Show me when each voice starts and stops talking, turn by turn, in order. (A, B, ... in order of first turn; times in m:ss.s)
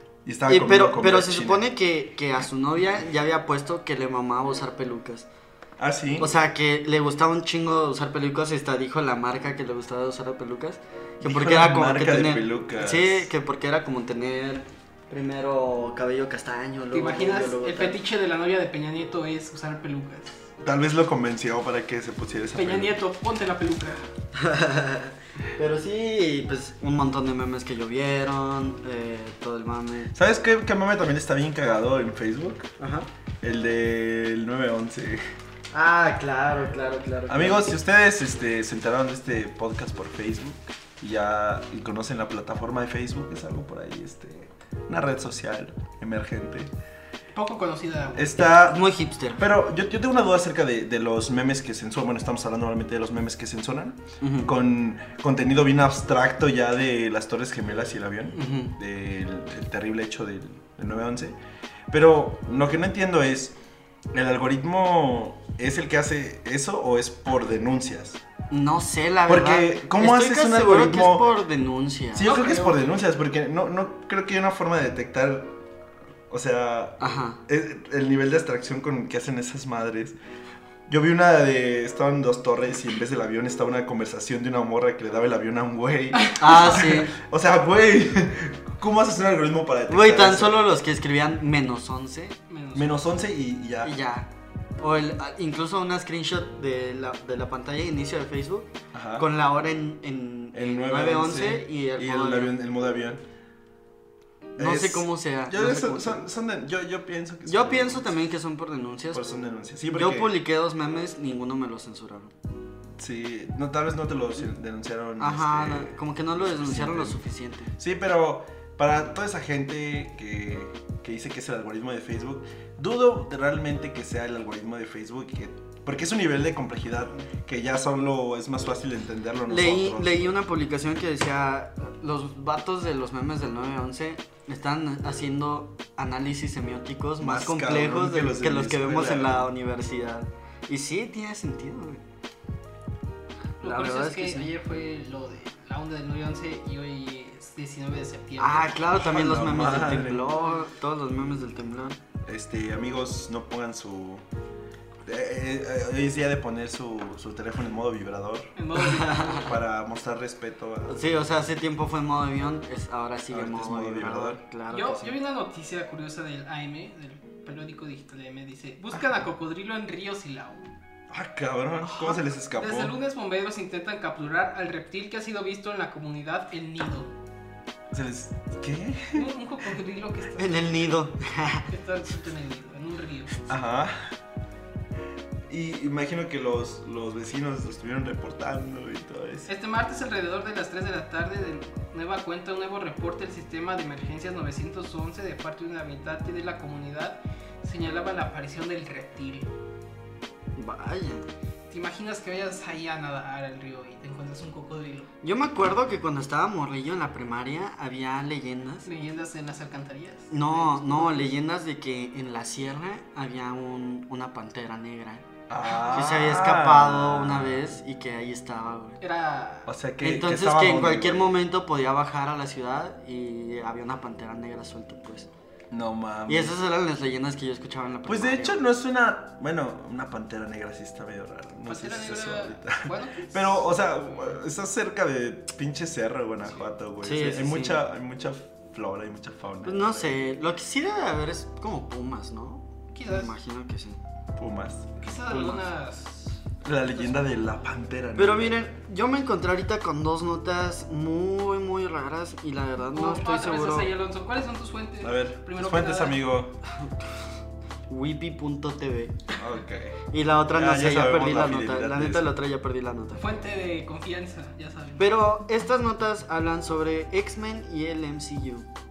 0:00.2-0:01.7 A
0:00.5-0:05.3 B
0:05.8-0:06.4 A
0:06.2-0:18.0 B
0:11.2-0:13.3 A
0:16.9-0:20.4 C
0:20.6-0:23.0 A
0:22.6-0:24.1 C
0:24.3-0:30.1 B
0:30.1-0:32.7 A
0:32.8-0:33.1 B
0:33.4-0:35.2 A
0:35.7-0:37.7 B
0:37.3-0:46.7 A
0:47.3-0:48.5 C
0:48.2-1:01.4 A
0:48.6-0:49.4 B
0:54.2-0:54.5 B
0:58.3-0:58.8 B
1:01.9-1:03.6 A
1:04.1-1:08.2 A
1:08.5-1:12.4 B
1:09.3-1:11.3 A
1:12.2-1:15.5 A
1:12.2-1:13.0 C
1:16.3-1:20.2 A
1:17.0-1:17.4 B
1:20.9-1:30.7 A
1:26.2-1:26.9 C
1:26.3-1:27.2 B
1:29.9-1:32.4 B
1:32.5-1:33.0 C
1:32.7-1:33.9 A
1:33.8-1:34.3 B
1:34.8-1:42.6 B
1:38.9-1:39.3 A
1:40.5-1:43.2 A
1:44.6-1:46.3 B
1:44.6-1:48.2 A
1:47.5-1:49.4 B
1:49.1-1:50.4 A
1:49.9-1:52.3 B
1:53.0-1:57.2 A
1:55.2-1:57.7 B
1:57.8-2:10.2 A
2:09.5-2:22.0 B
2:17.2-2:19.5 A
2:23.6-2:28.9 C
2:23.6-2:24.5 B
2:28.4-2:32.0 B
2:29.0-2:30.3 A
2:30.3-2:30.7 C
2:32.2-2:34.2 A
2:35.0-2:38.5 A
2:38.6-2:39.5 C
2:38.8-2:39.5 B
2:39.3-2:41.0 A
2:40.9-2:45.2 B
2:43.3-2:44.4 A
2:44.7-2:50.7 C
2:51.1-2:53.0 A
2:52.0-2:57.1 C
2:57.9-2:59.3 A
2:59.1-3:00.7 C
3:00.4-3:01.7 B
3:01.7-3:03.4 C
3:03.5-3:04.2 A
3:05.5-3:09.5 A
3:09.5-3:19.5 C
3:20.6-3:21.3 B
3:21.7-3:25.1 C
3:25.2-3:28.9 B
3:28.9-3:31.3 C
3:30.3-3:35.3 B
3:35.5-3:37.7 A
3:35.9-3:39.0 B
3:39.0-3:39.7 C
3:39.7-3:41.4 A
3:40.0-3:45.3 B
3:45.7-3:46.6 A
3:46.3-3:48.7 B
3:48.1-4:00.2 A
3:51.7-3:54.4 C
3:57.0-3:57.8 B
3:59.6-4:04.0 B
4:02.9-4:03.3 C
4:04.4-4:05.6 A
4:05.0-4:06.3 C
4:06.6-4:08.6 A
4:08.2-4:13.9 B
4:12.9-4:16.2 C
4:15.0-4:16.6 A
4:17.9-4:19.2 B
4:19.4-4:22.3 A
4:20.1-4:23.2 B
4:23.2-4:25.1 C
4:25.0-4:28.7 B